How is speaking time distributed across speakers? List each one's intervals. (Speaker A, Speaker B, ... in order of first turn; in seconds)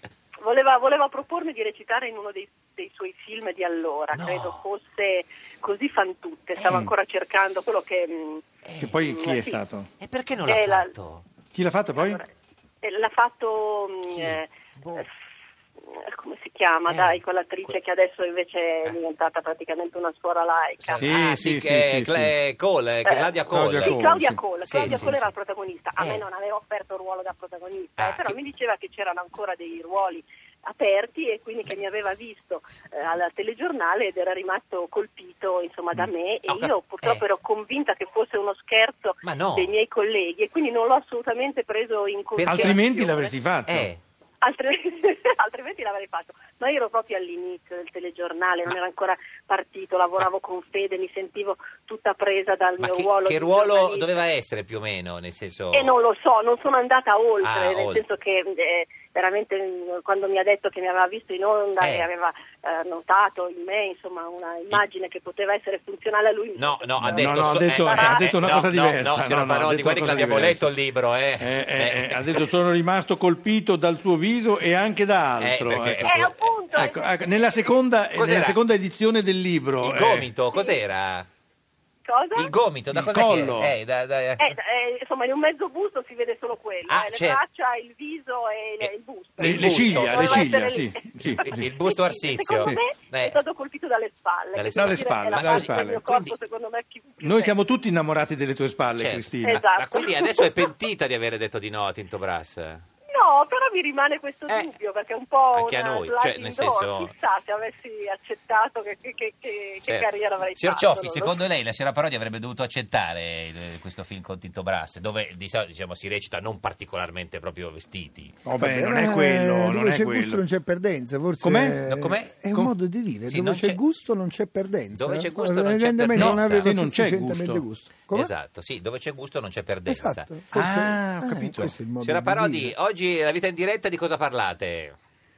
Speaker A: 0.4-8.4, 9.0-9.6, 10.4-10.9, 12.0-12.3, 12.8-15.1, 15.9-21.1, 23.0-43.4, 44.4-54.2, 55.7-68.3, 76.0-77.2, 80.5-80.8, 82.0-82.5, 84.4-97.5, 99.4-100.7, 103.1-111.4
Speaker B: 4.1-4.6, 8.6-8.9, 10.0-11.2, 14.1-15.1, 16.9-17.7, 20.8-25.3, 28.0-28.4, 36.0-37.2, 39.2-39.7, 42.4-42.8, 43.6-44.0, 52.8-55.9, 57.4-58.0, 61.8-62.1, 66.5-72.5, 75.4-76.5, 78.1-78.6, 79.8-81.3, 82.3-84.5, 86.9-87.4, 88.8-90.5, 91.2-93.4, 94.5-96.3, 99.0-102.8, 104.5-104.7, 105.5-107.1, 109.9-118.4, 121.8-122.3, 123.3-123.8, 124.9-126.7, 128.1-130.3, 132.0-134.9
Speaker C: 6.6-6.9, 8.8-9.9, 11.5-12.2, 21.0-22.3, 23.5-24.4, 42.4-43.9, 67.0-70.7, 71.4-80.3, 82.9-83.7, 89.4-91.7, 94.7-96.0, 97.2-99.6, 118.4-120.4, 121.4-121.8, 122.5-122.7, 126.1-127.6, 130.5-131.7
Speaker D: 118.6-128.3, 129.9-132.7